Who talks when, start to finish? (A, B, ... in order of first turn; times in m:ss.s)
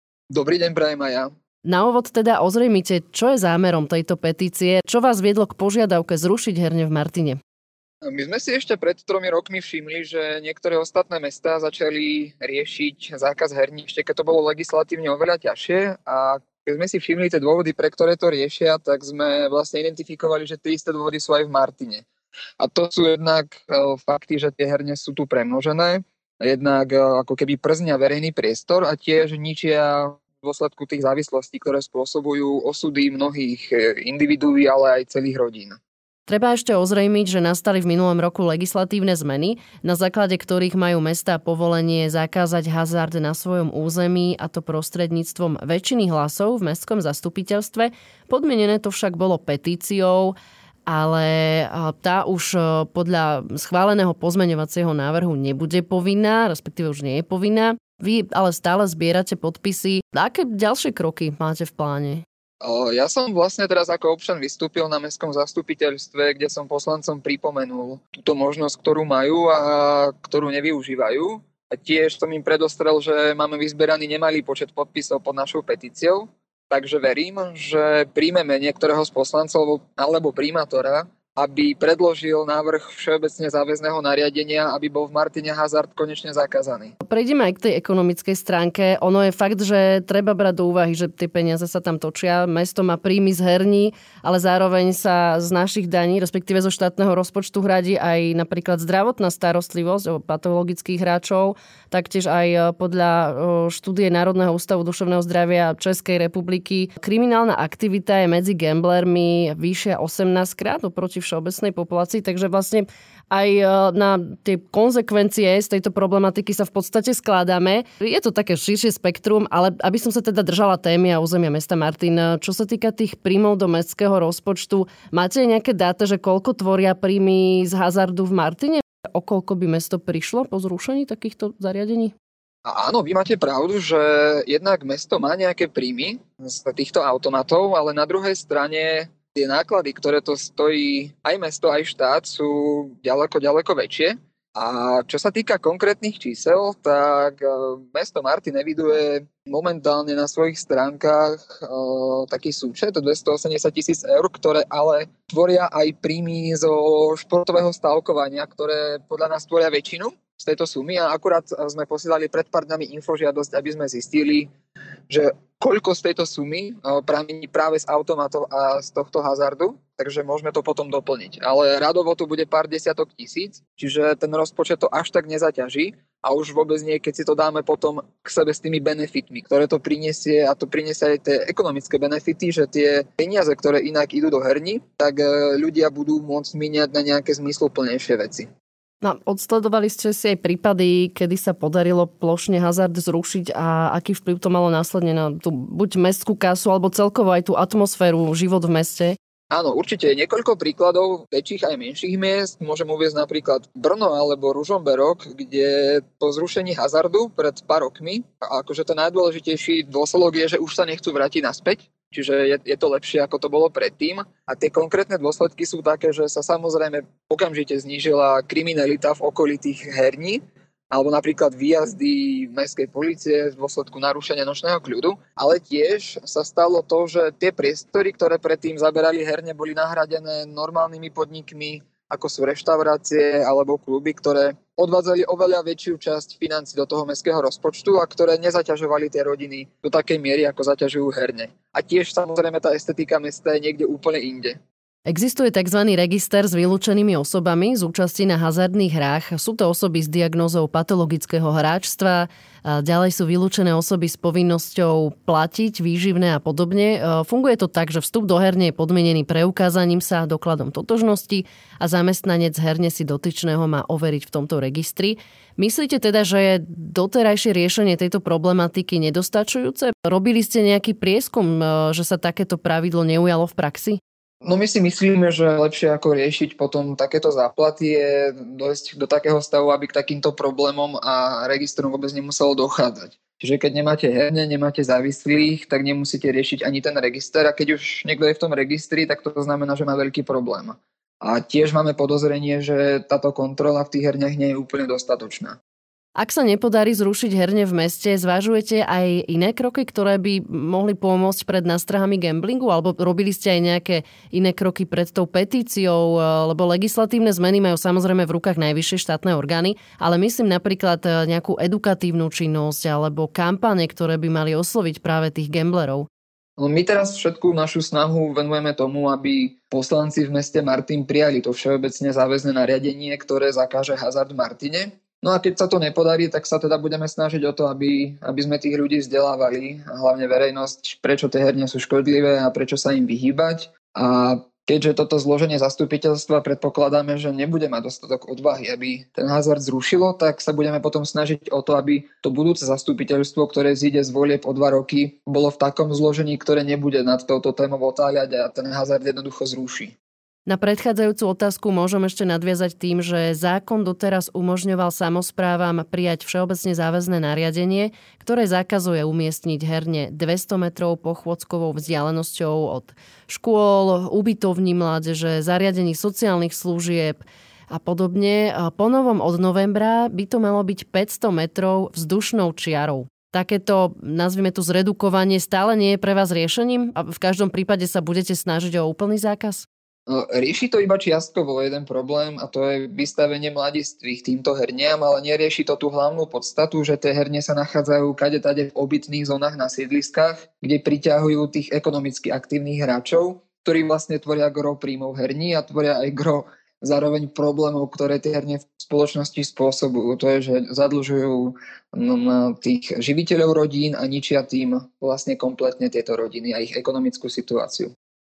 0:00.3-0:01.3 A
0:01.7-0:07.4 B
0:08.0-0:22.1 A
0:22.6-0:35.8 A
0:36.3-0:50.4 B
0:50.9-1:02.2 B
1:02.6-1:27.0 A
1:27.0-2:12.1 B
2:12.6-2:44.5 A
2:45.1-3:08.5 A
3:09.0-3:19.2 B
3:19.5-3:40.4 A
3:40.9-4:04.6 A
4:05.1-4:34.0 B
4:34.4-4:55.6 A
4:56.2-5:16.1 B
5:16.6-5:50.0 A
5:50.5-6:19.7 B
6:20.1-6:47.9 A